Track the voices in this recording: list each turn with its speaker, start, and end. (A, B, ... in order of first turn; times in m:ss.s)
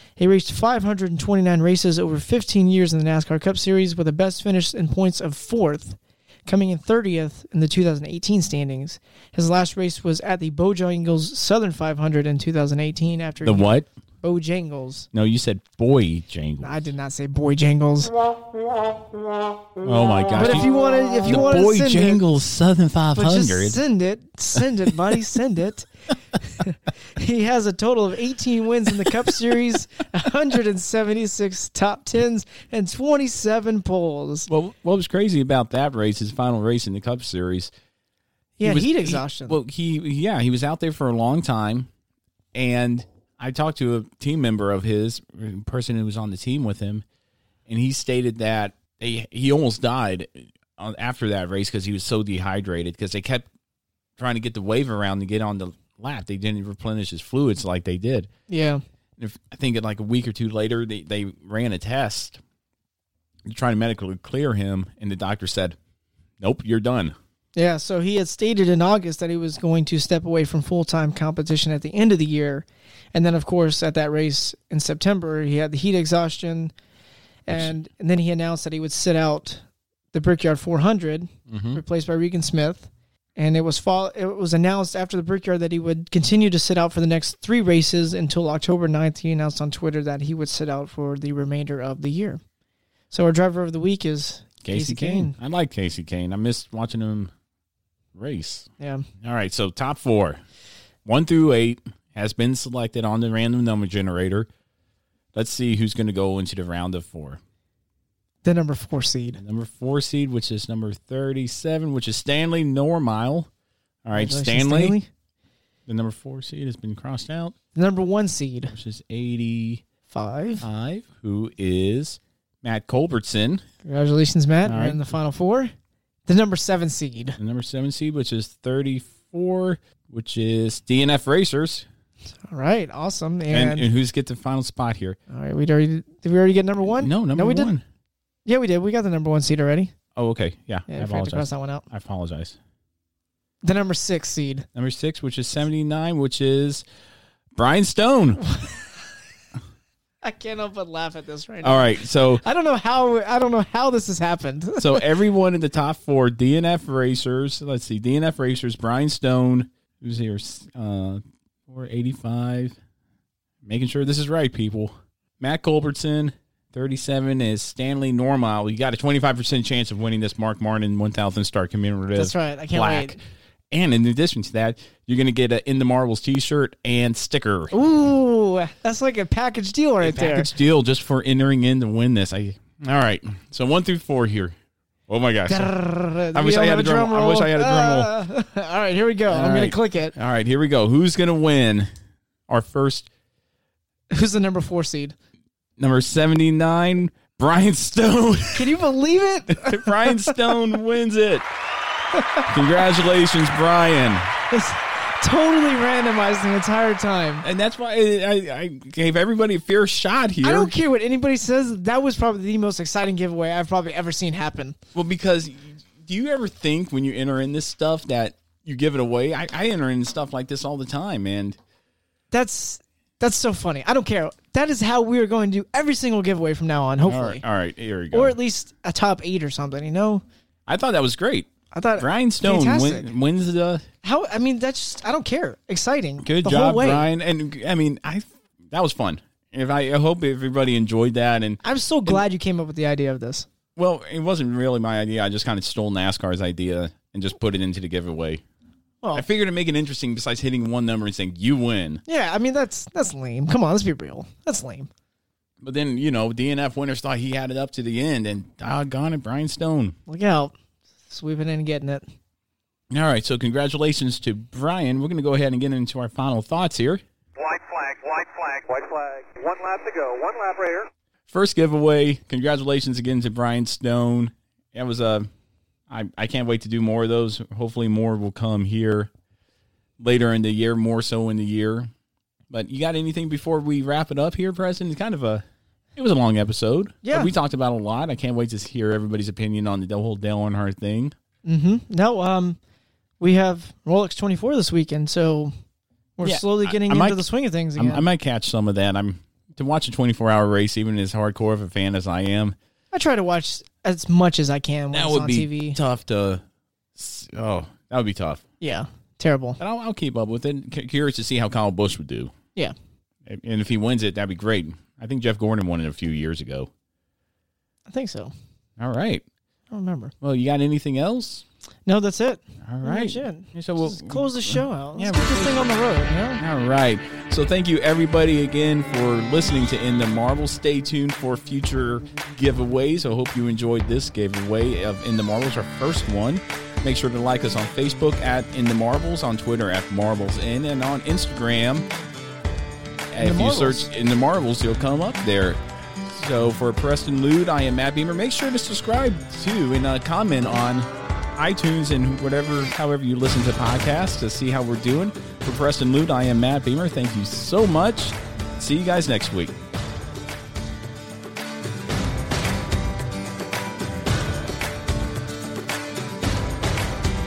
0:00.2-0:13.6 A
0:13.4-0:13.9 B
0:14.2-0:15.1 A
0:15.1-0:16.9 B
0:16.6-0:18.1 A
0:19.8-0:20.7 B
0:20.4-0:22.2 A
0:21.2-0:23.8 B
0:23.2-0:25.9 A
0:24.6-0:25.1 B
0:26.6-0:34.5 A
0:34.5-0:37.7 B
0:38.6-0:39.6 A
0:38.6-0:41.9 B
0:42.5-0:47.0 B
0:47.7-0:53.4 B
0:54.2-0:58.3 B
0:58.5-0:58.8 A
0:59.2-1:02.4 B
1:03.4-1:05.8 B
1:06.4-1:07.1 B
1:07.6-1:16.7 A
1:17.4-1:32.4 A
1:21.5-1:21.8 B
1:33.1-1:35.3 A
1:34.6-1:37.3 B
1:38.1-1:38.7 B
1:38.8-1:39.0 A
1:39.2-1:40.4 B
1:41.0-1:44.5 B
1:45.3-1:47.4 B
1:48.4-1:49.4 A
1:49.4-1:53.5 B
1:54.0-1:55.0 B
1:54.1-1:55.1 A
1:55.9-1:57.5 B
1:57.7-1:58.7 A
1:58.7-1:59.8 B
2:00.1-2:00.6 A
2:00.6-2:03.6 B
2:03.8-2:05.7 A
2:04.6-2:05.0 B
2:06.3-2:07.4 A
2:07.4-2:11.8 B
2:12.5-2:13.9 A
2:13.5-2:15.2 B
2:15.3-2:17.7 A
2:16.8-2:17.8 B
2:18.4-2:19.9 A
2:20.2-2:22.6 B
2:20.9-2:21.8 A
2:23.6-2:24.6 A
2:24.7-2:26.8 B
2:27.6-2:28.4 B
2:28.4-2:28.7 A
2:30.2-2:31.9 A
2:31.6-2:32.4 B
2:32.4-2:35.1 A
2:34.8-2:42.8 B
2:43.6-2:53.2 B
2:52.1-2:53.2 A
2:53.7-2:57.7 B
2:57.7-3:00.5 A
3:00.0-3:04.5 B
3:05.1-3:05.8 B
3:05.5-3:10.1 A
3:06.3-3:08.1 B
3:09.3-3:11.9 B
3:12.5-3:13.1 B
3:14.1-3:15.1 A
3:15.8-3:18.7 B
3:18.5-3:20.4 A
3:19.5-3:21.4 B
3:22.1-3:22.4 A
3:22.5-3:24.3 B
3:24.5-3:27.4 A
3:27.4-3:30.7 B
3:30.4-3:34.8 A
3:34.9-3:41.6 B
3:42.3-3:47.4 A
3:47.0-3:48.4 B
3:48.1-3:50.2 A
3:50.7-3:53.8 B
3:51.7-3:53.1 A
3:54.0-3:57.0 A
3:56.2-4:02.2 B
4:01.6-4:03.5 A
4:03.8-4:08.4 B
4:09.1-4:12.0 B
4:12.1-4:14.9 A
4:15.6-4:20.0 B
4:20.1-4:20.5 A
4:21.1-4:22.0 A
4:22.9-4:27.0 B
4:27.4-4:30.9 C
4:31.3-4:35.3 B
4:35.9-4:39.1 B
4:40.0-4:41.9 B
4:42.5-4:45.4 B
4:46.0-4:51.1 B
4:47.0-4:47.3 A
4:51.4-4:52.6 A
4:53.2-4:55.5 A
4:56.2-4:58.0 A
4:56.2-5:02.6 B
5:02.9-5:05.8 A
5:04.9-5:06.4 B
5:07.0-5:08.4 B
5:08.6-5:09.6 A
5:09.6-5:12.3 B
5:13.2-5:16.7 B
5:17.9-5:18.3 A
5:18.8-5:19.2 B
5:19.7-5:20.1 A
5:20.2-5:21.4 B
5:21.9-5:26.4 A
5:22.6-5:25.6 B
5:26.4-5:41.9 B
5:43.1-5:59.5 B
5:43.2-5:43.9 A